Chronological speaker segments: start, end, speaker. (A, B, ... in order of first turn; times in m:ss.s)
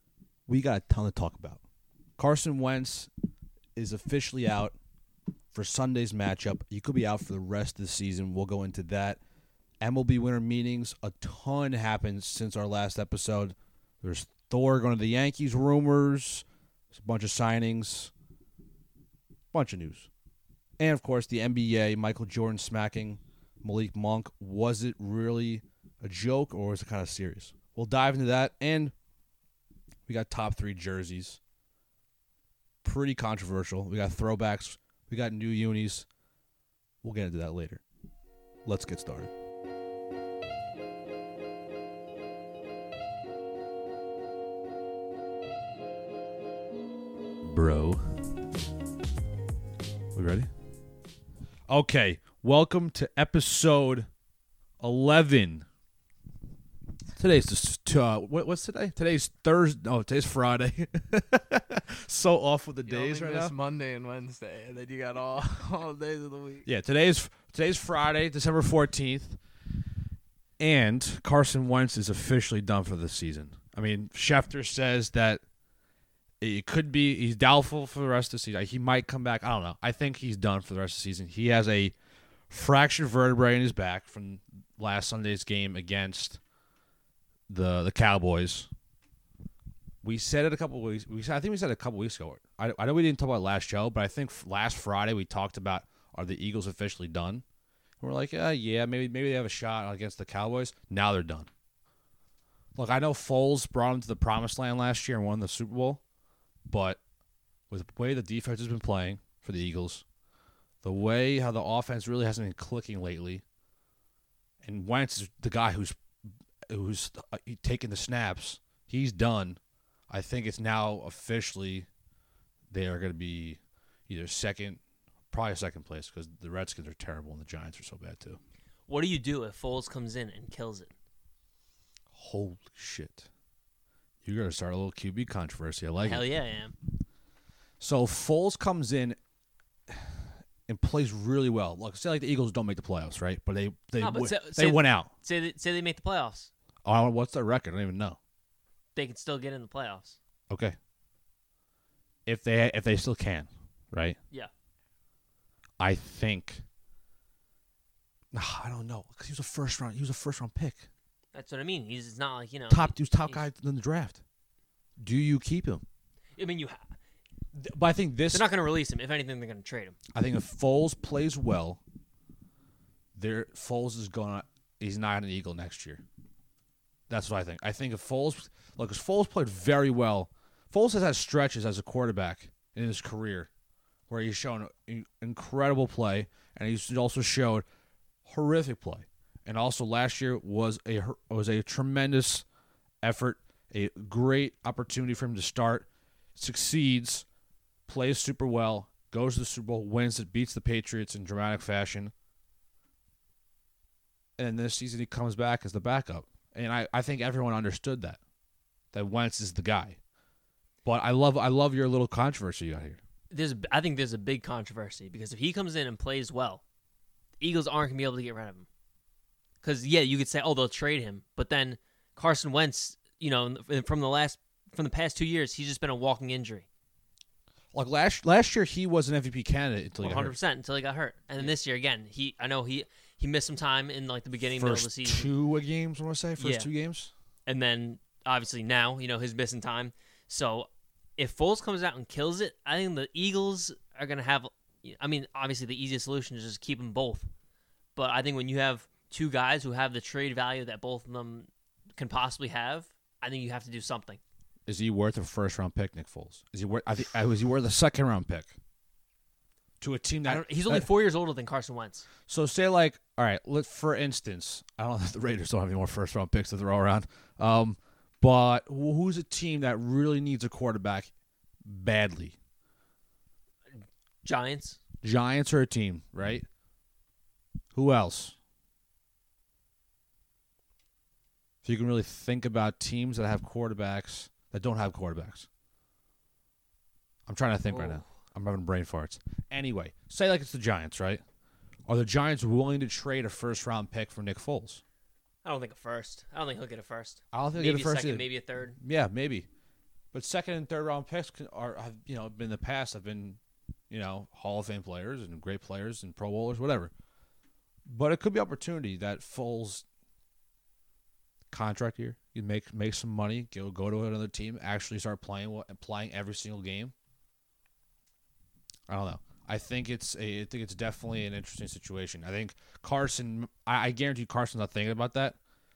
0:00.5-0:01.6 A
0:02.2-0:03.1 A
0:03.8-0:04.7 A
0:05.5-0:09.2 A
0:09.8-0:18.1 A
0:19.5-0:20.1 A
0:20.8-0:28.9 A
0:30.1-0:31.4 A
0:32.8-0:36.0 A
0:37.0-0:37.8 A
0:38.6-0:39.3 A
0:47.4-0:48.0 A
0:50.1-0:50.5 A
0:51.7-0:54.1 A
0:54.8-0:55.6 A
0:57.2-1:03.5 A
1:02.9-1:06.6 B
1:06.6-1:09.4 A
1:10.6-1:15.4 A
1:16.4-1:21.9 A
1:22.5-1:26.4 A
1:27.5-1:28.7 A
1:30.0-1:37.4 A
1:38.0-1:41.5 A
1:42.8-1:46.0 A
1:46.7-1:47.0 A
1:47.7-1:50.0 A
1:50.8-1:53.4 A
1:54.6-1:56.0 A
1:56.7-1:59.6 A
2:00.1-2:01.9 A
2:02.7-2:04.8 A
2:05.3-2:08.4 A
2:08.9-2:10.9 C
2:12.1-2:13.3 A
2:14.2-2:16.2 A
2:16.0-2:16.7 C
2:17.8-2:19.2 A
2:20.7-2:25.1 A
2:24.0-2:26.5 C
2:26.8-2:28.2 A
2:28.9-2:30.2 C
2:30.5-2:30.8 A
2:32.2-2:34.2 A
2:35.8-2:36.6 A
2:38.3-2:40.9 A
2:41.3-2:43.4 C
2:42.7-2:44.2 A
2:45.0-2:45.8 A
2:46.4-2:46.8 C
2:47.5-2:48.4 A
2:48.3-2:50.0 C
2:50.1-2:51.8 A
2:53.2-2:56.0 A
2:57.1-3:03.5 A
3:04.1-3:07.6 A
3:08.2-3:12.4 A
3:13.0-3:17.2 A
3:17.9-3:22.1 A
3:24.4-3:28.2 A
3:28.9-3:30.0 A
3:30.8-3:33.0 A
3:33.3-3:36.6 C
3:37.4-3:38.6 C
3:39.6-3:46.6 C
3:47.7-3:50.3 A
3:50.0-3:55.3 C
3:54.6-3:57.1 A
3:56.4-3:56.7 C
3:57.4-4:07.3 C
4:07.9-4:14.2 C
4:14.6-4:18.5 A
4:19.8-4:20.9 A
4:20.2-4:22.1 C
4:22.3-4:31.1 A
4:31.7-4:32.3 A
4:34.2-4:34.8 C
4:35.0-4:36.4 A
4:37.7-4:38.3 A
4:41.6-4:45.5 A
4:47.2-4:51.2 A
4:47.7-4:48.0 C
4:51.9-4:54.8 A
4:55.4-4:58.8 C
4:57.3-4:58.2 A
4:58.8-4:59.5 A
5:00.1-5:03.4 A
5:03.9-5:06.9 A
5:07.9-5:09.8 A
5:11.5-5:16.9 A
5:18.9-5:25.4 A